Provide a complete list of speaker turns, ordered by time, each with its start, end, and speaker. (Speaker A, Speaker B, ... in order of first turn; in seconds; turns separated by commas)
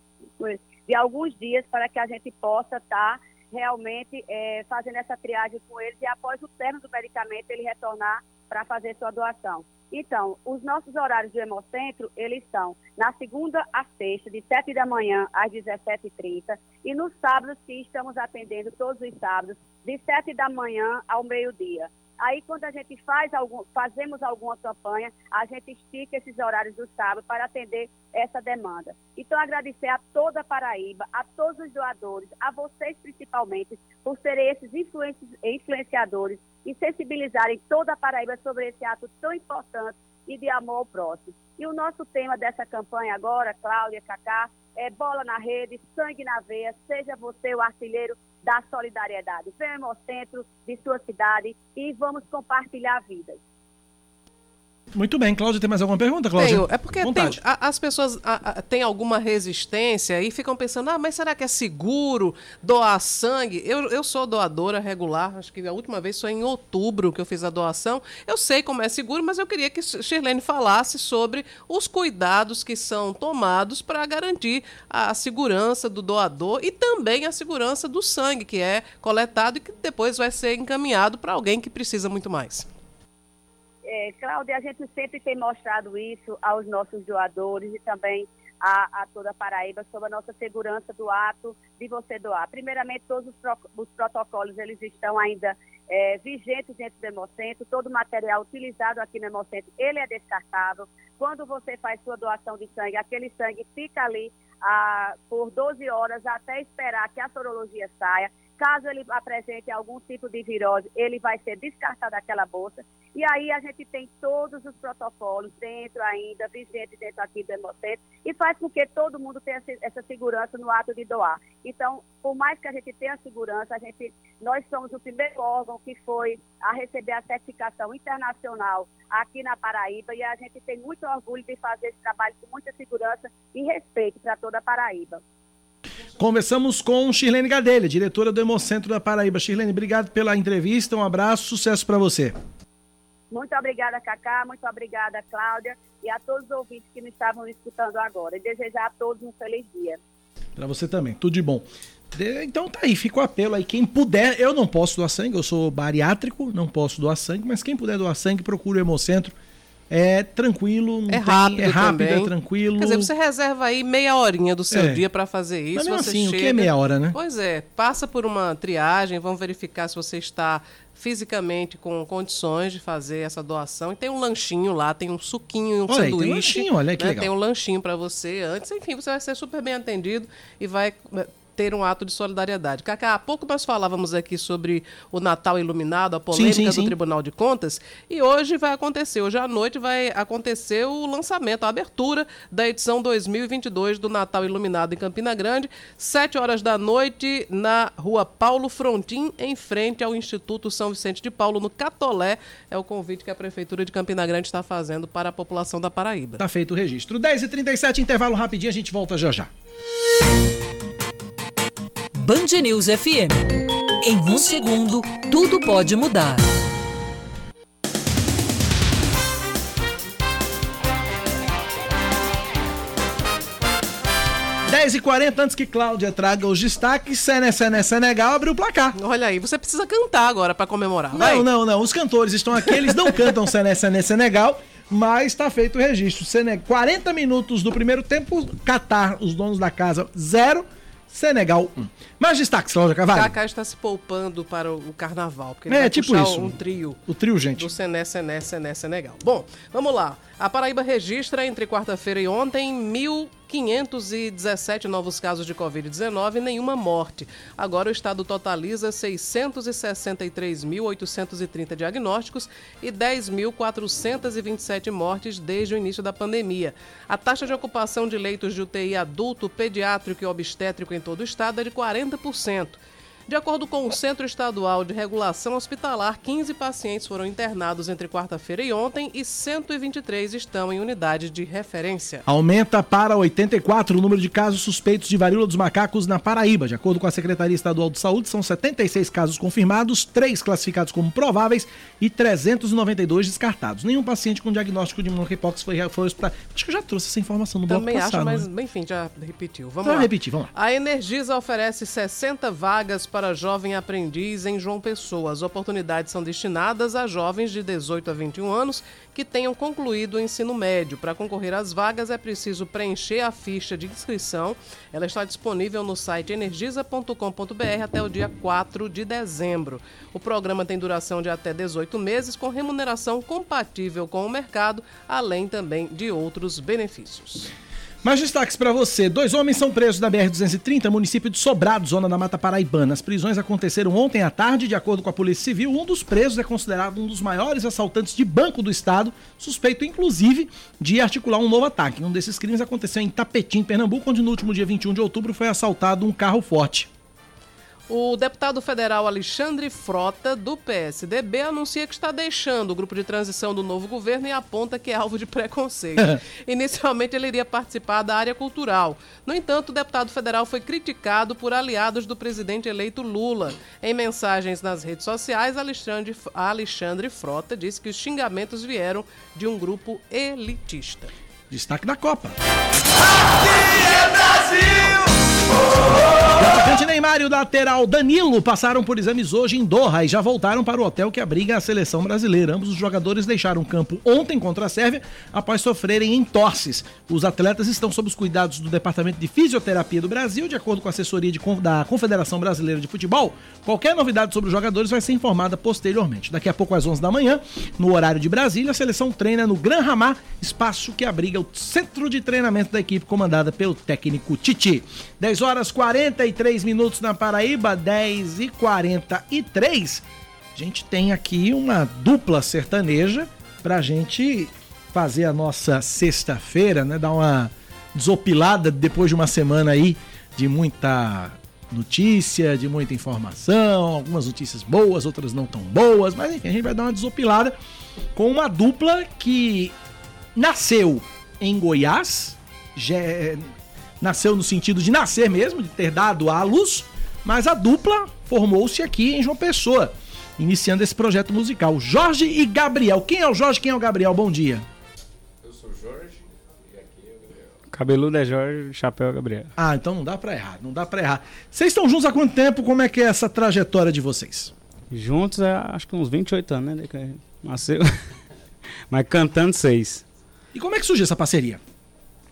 Speaker A: 0.4-53.4, Speaker B: 54.9-57.4, Speaker C: 56.4-82.7, Speaker A: 83.8-135.2, Speaker B: 136.2-142.3, Speaker A: 143.3-150.0, Speaker B: 150.6-159.3, Speaker B: 159.9-163.1, Speaker C: 161.1-206.4, Speaker B: 164.7-165.0, Speaker B: 165.7-167.1, Speaker B: 175.9-177.3, Speaker B: 186.3-186.9, Speaker B: 206.4-209.5, Speaker D: 212.1-216.4, Speaker B: 224.7-228.9, Speaker C: 228.9-231.4, Speaker B: 231.1-243.3, Speaker C: 233.0-233.3, Speaker C: 243.1-247.0, Speaker B: 245.7-247.7, Speaker C: 247.6-282.2, Speaker B: 282.3-298.5, Speaker C: 297.7-327.5, Speaker B: 299.8-300.5, Speaker B: 328.0-346.9, Speaker C: 347.9-371.1, Speaker B: 371.5-372.4, Speaker B: 376.3-410.0, Speaker B: 410.5-427.5, Speaker B: 428.1-429.7, Speaker B: 430.3-433.5, Speaker B: 434.0-444.6, Speaker E: 445.4-447.5, Speaker F: 447.7-449.5, Speaker B: 449.6-454.5, Speaker F: 454.9-458.0, Speaker F: 458.9-460.0, Speaker B: 460.5-461.6